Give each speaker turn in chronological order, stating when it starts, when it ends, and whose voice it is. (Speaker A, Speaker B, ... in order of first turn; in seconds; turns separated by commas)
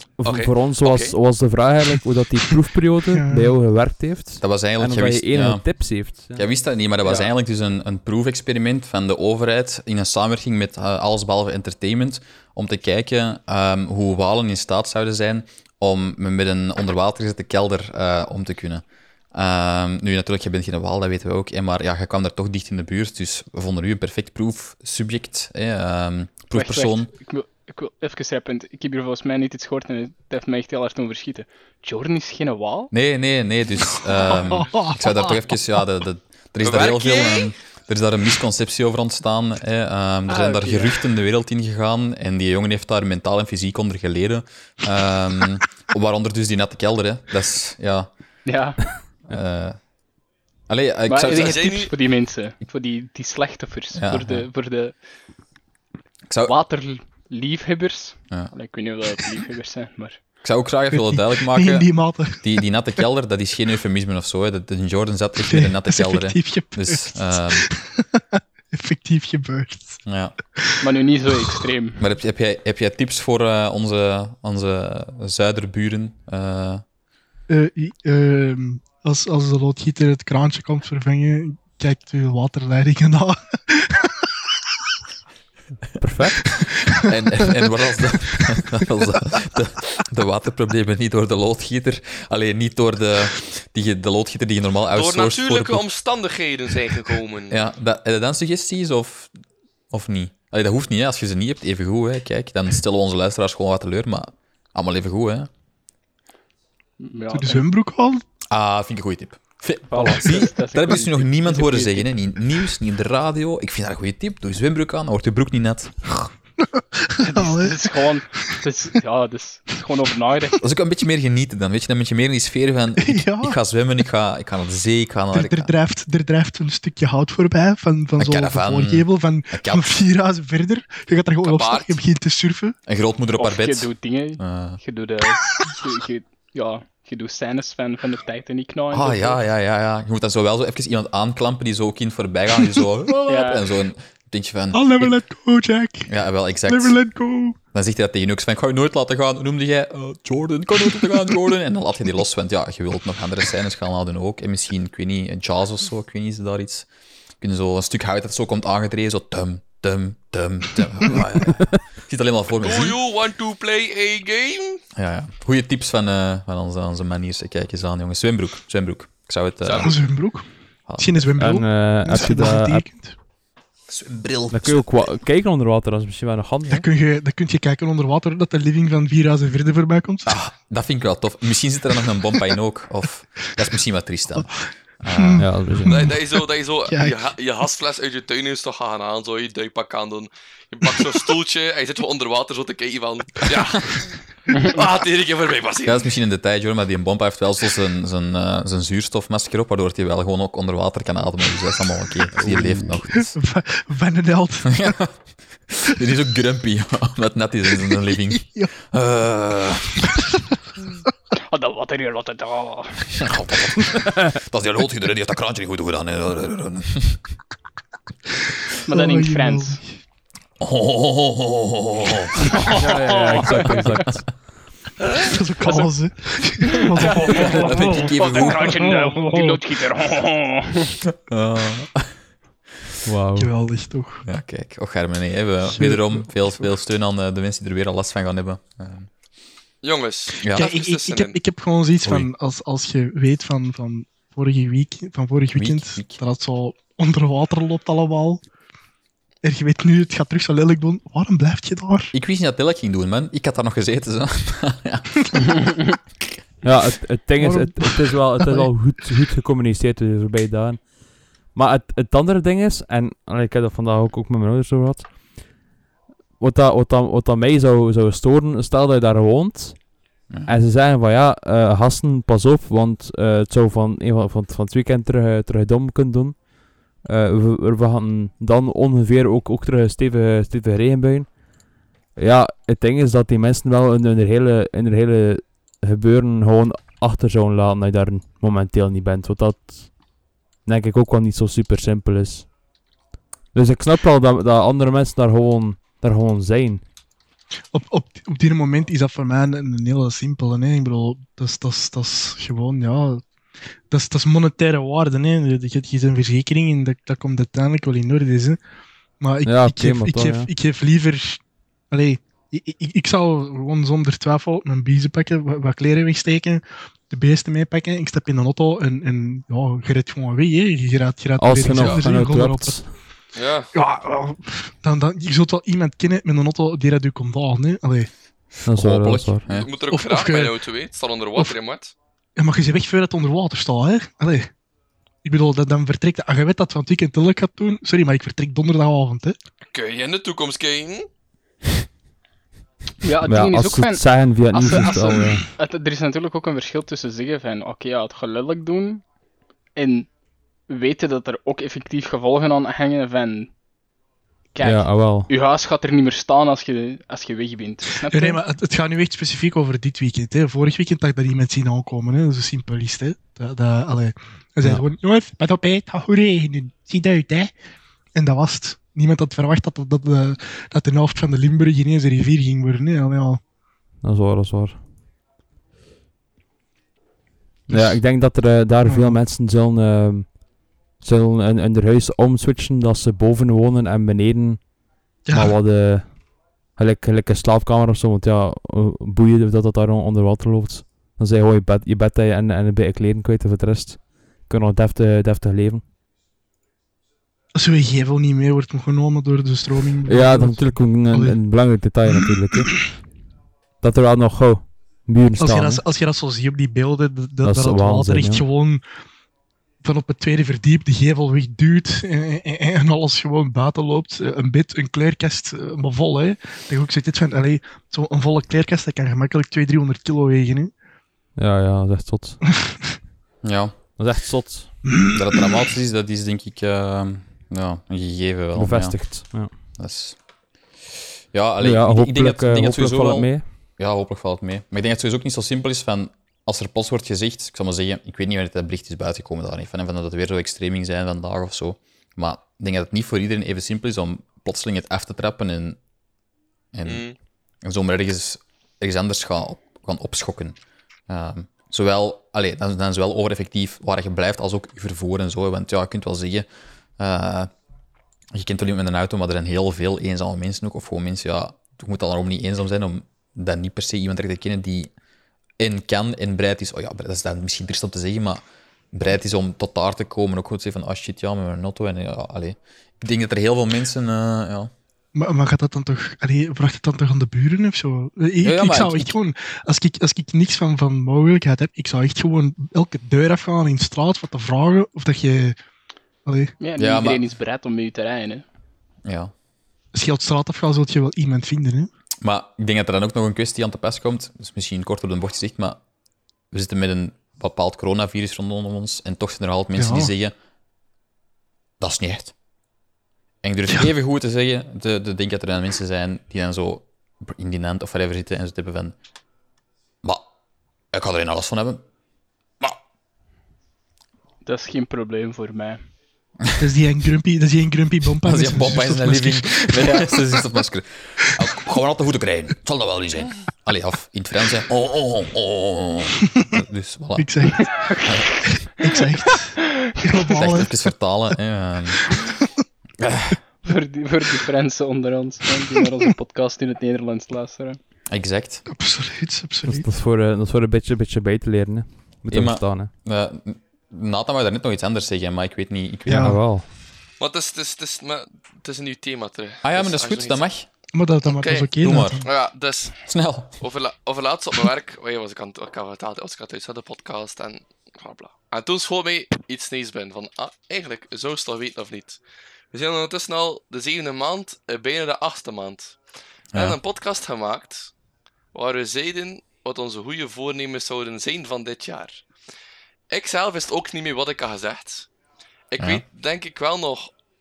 Speaker A: 0.2-6.5, Speaker B: 0.2-1.1, Speaker C: 3.1-3.5, Speaker D: 4.4-27.1, Speaker E: 26.5-32.9, Speaker D: 32.9-48.1, Speaker C: 34.2-35.3, Speaker B: 36.6-37.5, Speaker E: 40.3-41.0, Speaker E: 48.5-48.9, Speaker D: 49.3-49.8, Speaker D: 50.7-51.9, Speaker E: 51.1-55.0, Speaker B: 51.3-51.9, Speaker D: 53.9-54.5, Speaker D: 56.3-56.5, Speaker E: 56.5-60.2, Speaker D: 60.4-67.7, Speaker C: 61.1-62.6, Speaker C: 65.4-70.0, Speaker D: 70.1-70.3, Speaker E: 70.8-72.0, Speaker D: 72.0-76.8, Speaker C: 77.5-84.1, Speaker A: 86.0-86.5, Speaker D: 86.9-95.8, Speaker B: 94.9-97.6, Speaker D: 97.5-99.3, Speaker D: 99.9-105.5, Speaker E: 107.0-107.7, Speaker C: 107.3-108.2, Speaker D: 108.5-116.3, Speaker E: 109.9-112.1, Speaker C: 116.6-118.5, Speaker E: 117.2-120.6, Speaker D: 120.6-125.7, Speaker C: 123.0-123.6, Speaker C: 125.3-132.8, Speaker D: 128.2-129.9, Speaker B: 131.4-132.0, Speaker D: 132.9-134.8, Speaker E: 133.4-139.4, Speaker D: 138.9-145.1, Speaker E: 143.3-143.6, Speaker C: 144.7-146.1, Speaker D: 146.1-147.0, Speaker C: 146.7-147.6, Speaker D: 147.7-156.9, Speaker D: 157.4-163.0, Speaker B: 162.6-164.8, Speaker D: 164.9-170.0, Speaker B: 169.6-169.9, Speaker C: 169.8-170.5, Speaker D: 170.9-171.3, Speaker C: 171.0-173.2, Speaker A: 171.4-172.9, Speaker D: 173.9-175.0, Speaker A: 174.5-176.9, Speaker C: 176.7-180.4, Speaker D: 180.3-185.5, Speaker C: 185.1-187.3, Speaker A: 185.4-186.0, Speaker B: 185.9-196.1, Speaker D: 195.8-203.4, Speaker A: 202.4-202.9, Speaker C: 203.2-205.0, Speaker D: 204.7-205.1, Speaker D: 205.7-210.2, Speaker E: 211.5-213.2, Speaker D: 213.2-217.2, Speaker E: 218.9-219.8, Speaker C: 218.9-219.9, Speaker D: 220.6-222.5, Speaker E: 222.4-224.0, Speaker A: 222.7-224.3, Speaker C: 225.1-229.7, Speaker E: 225.6-225.9, Speaker E: 226.7-231.0, Speaker D: 227.1-228.8, Speaker D: 231.1-232.2, Speaker A: 233.1-233.5, Speaker C: 233.4-234.2, Speaker D: 234.2-239.1, Speaker C: 235.8-236.6, Speaker B: 239.8-241.4, Speaker D: 240.4-240.7, Speaker C: 240.5-248.4, Speaker D: 245.6-246.2, Speaker C: 249.4-252.1, Speaker D: 252.1-255.8, Speaker A: 256.6-260.9, Speaker C: 257.4-258.7, Speaker A: 261.5-265.1, Speaker A: 266.4-269.8, Speaker A: 270.5-276.4, Speaker A: 277.0-281.3, Speaker A: 282.2-289.9, Speaker A: 290.6-292.5, Speaker A: 293.5-296.8, Speaker C: 297.7-303.2, Speaker C: 303.9-308.6, Speaker C: 309.2-322.8, Speaker A: 309.4-310.5, Speaker A: 321.4-322.9, Speaker B: 323.4-323.7, Speaker C: 323.7-328.1, Speaker D: 328.5-329.7, Speaker A: 328.7-329.4, Speaker B: 329.5-331.9, Speaker C: 329.9-330.6, Speaker C: 332.4-334.5, Speaker C: 335.2-339.4, Speaker B: 339.7-341.1, Speaker E: 343.0-349.0, Speaker A: 343.3-345.4, Speaker E: 349.8-350.1, Speaker E: 350.7-353.5, Speaker E: 354.5-358.4, Speaker A: 354.6-355.3, Speaker C: 358.1-367.5, Speaker C: 368.1-373.4, Speaker A: 374.0-374.8, Speaker A: 377.7-380.4, Speaker C: 377.7-378.0, Speaker C: 378.9-379.2, Speaker A: 381.0-384.7, Speaker C: 385.3-385.6, Speaker A: 385.3-386.2, Speaker A: 386.8-395.8, Speaker C: 397.6-401.4, Speaker A: 400.1-402.9, Speaker C: 402.1-402.8, Speaker A: 403.8-405.8, Speaker C: 405.4-408.8, Speaker A: 407.4-408.4, Speaker C: 409.8-420.7, Speaker A: 421.4-422.4, Speaker D: 423.4-423.7, Speaker A: 424.0-424.8, Speaker C: 425.0-425.4, Speaker D: 425.1-430.2, Speaker A: 428.6-429.5, Speaker D: 431.3-445.8, Speaker A: 431.6-433.4, Speaker D: 446.7-447.1, Speaker B: 446.9-447.2, Speaker D: 447.6-450.6, Speaker D: 451.1-456.5, Speaker D: 457.0-457.5, Speaker D: 458.3-464.9, Speaker D: 465.6-474.7, Speaker C: 475.1-485.6, Speaker D: 478.4-479.1, Speaker C: 486.3-486.6, Speaker E: 486.6-488.4, Speaker D: 486.8-487.2, Speaker D: 489.1-489.3, Speaker C: 489.9-491.9, Speaker D: 492.2-495.8, Speaker D: 496.5-500.4, Speaker C: 499.8-500.1, Speaker D: 501.8-502.3, Speaker D: 503.4-508.9, Speaker D: 510.9-511.8, Speaker E: 514.5-515.8, Speaker C: 516.6-520.2, Speaker D: 518.2-528.4, Speaker C: 527.2-527.7, Speaker E: 527.6-528.2, Speaker C: 528.6-530.9, Speaker E: 529.6-530.2, Speaker D: 530.3-532.2, Speaker D: 533.0-533.4, Speaker E: 533.6-537.8, Speaker D: 538.1-538.6, Speaker C: 538.7-539.9, Speaker A: 539.7-542.9, Speaker D: 542.3-546.4, Speaker C: 546.1-546.4, Speaker A: 546.1-546.7, Speaker B: 547.2-550.4, Speaker D: 549.6-550.7, Speaker C: 550.9-552.3, Speaker B: 551.2-553.0, Speaker D: 551.8-552.3, Speaker D: 553.0-553.6, Speaker B: 553.6-562.2, Speaker B: 562.7-566.0, Speaker B: 566.5-567.9, Speaker B: 568.5-572.2, Speaker B: 573.1-575.1, Speaker B: 575.7-577.1, Speaker D: 575.8-576.0